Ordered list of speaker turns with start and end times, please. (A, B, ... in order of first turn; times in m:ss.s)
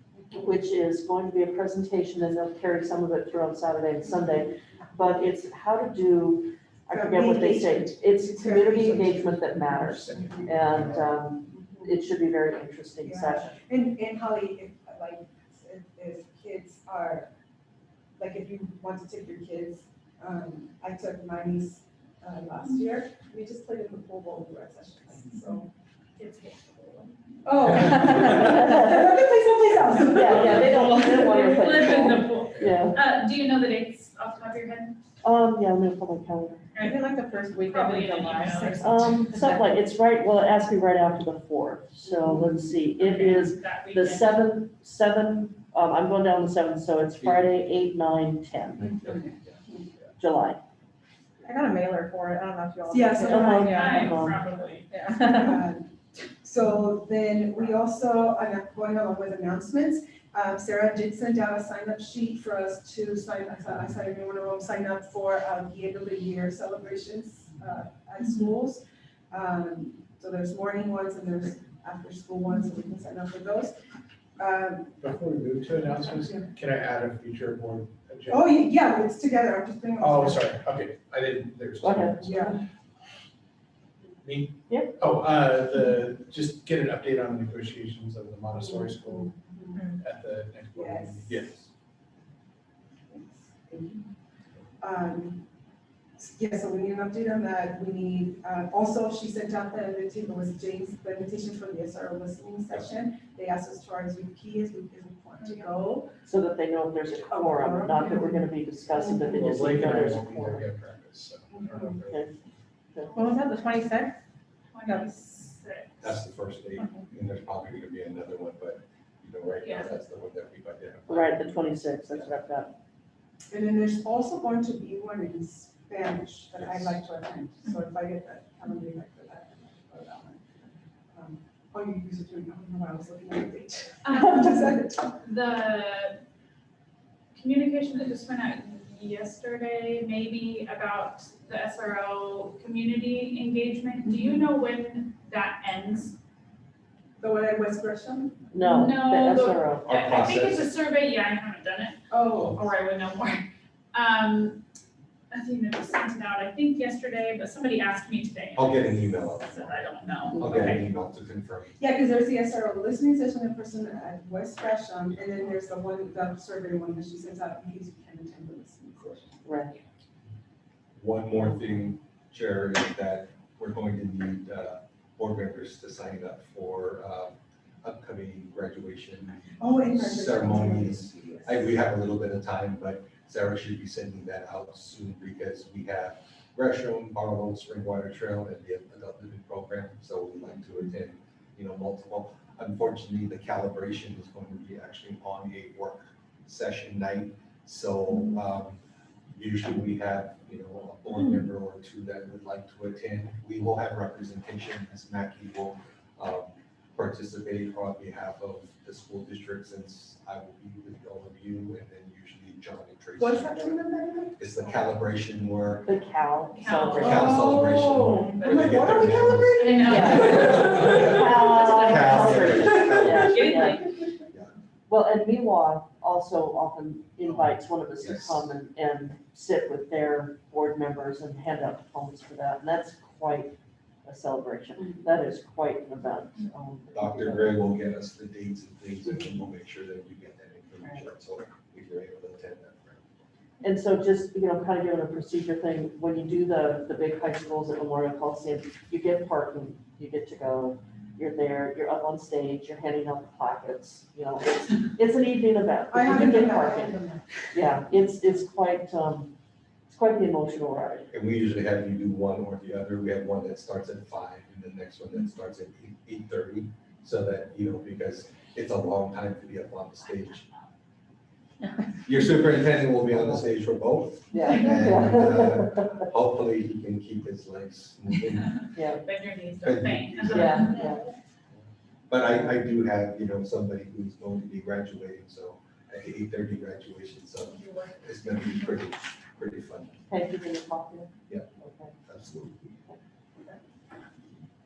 0:00.3-0:13.6 A
0:06.9-0:09.5 B
0:09.5-0:11.1 C
0:11.5-0:11.9 B
0:13.0-0:17.3 B
0:18.2-0:25.7 B
0:26.2-0:27.1 D
0:27.4-0:31.5 B
0:28.2-0:29.1 A
0:30.1-0:33.0 A
0:30.3-0:35.0 D
0:35.2-0:36.7 A
0:36.7-0:37.1 D
0:36.8-0:39.6 E
0:37.7-0:39.1 D
0:38.8-0:49.2 A
0:42.9-0:44.4 D
0:49.0-0:49.3 F
0:50.2-0:50.6 A
0:51.4-0:54.2 E
0:52.9-0:54.2 B
0:53.2-0:54.4 A
0:53.4-0:54.9 D
0:54.9-0:55.6 E
0:55.3-1:13.7 B
1:14.4-1:15.0 B
1:15.0-1:18.6 C
1:18.3-1:20.6 B
1:20.0-1:22.5 C
1:21.8-1:22.6 A
1:22.2-1:22.6 B
1:24.2-1:29.3 C
1:24.7-1:24.9 A
1:28.6-1:29.8 B
1:29.9-1:31.6 C
1:30.7-1:31.4 B
1:33.1-1:34.0 B
1:34.8-1:35.4 B
1:36.2-1:46.1 B
1:45.5-1:45.7 E
1:46.2-1:50.6 A
1:47.3-1:48.5 B
1:49.0-1:52.3 C
1:51.5-1:52.0 B
1:52.1-1:52.3 A
1:52.9-1:53.2 A
1:53.1-1:54.2 E
1:54.7-1:56.2 D
1:54.8-1:55.1 E
1:56.0-2:02.3 F
1:56.8-1:57.0 E
1:59.6-1:59.9 D
2:01.1-2:02.7 A
2:03.5-2:15.1 B
2:06.6-2:07.0 F
2:14.0-2:14.6 D
2:15.2-2:16.2 D
2:17.3-2:26.2 D
2:24.1-2:24.4 B
2:27.2-2:28.5 B
2:28.5-2:29.9 A
2:28.6-2:34.6 D
2:29.8-2:30.7 F
2:32.1-2:32.6 B
2:35.3-2:40.9 D
2:38.5-2:41.8 F
2:41.8-2:49.3 B
2:49.0-2:49.2 F
2:49.4-2:49.8 A
2:51.0-3:18.8 F
2:59.6-3:01.7 B
3:19.3-3:33.8 F
3:33.2-3:34.5 B
3:34.4-3:35.9 F
3:35.8-3:37.6 A
3:36.5-3:39.0 D
3:37.0-3:43.6 F
3:37.0-3:40.6 B
3:39.5-3:43.9 D
3:39.8-3:43.8 A
3:44.9-3:53.5 A
3:48.0-3:48.4 F
3:54.0-3:57.6 A
3:56.9-4:03.2 F
4:03.6-4:17.0 A
4:15.9-4:17.3 B
4:17.5-4:19.3 A
4:19.9-4:21.1 A
4:21.1-4:30.5 F
4:32.0-4:38.7 F
4:33.1-4:33.4 A
4:34.3-4:36.1 A
4:38.7-4:39.0 A
4:39.0-4:40.9 D
4:39.6-4:40.8 F
4:40.3-4:41.0 A
4:42.1-4:50.0 F
4:50.1-4:51.9 A
4:52.1-4:52.7 F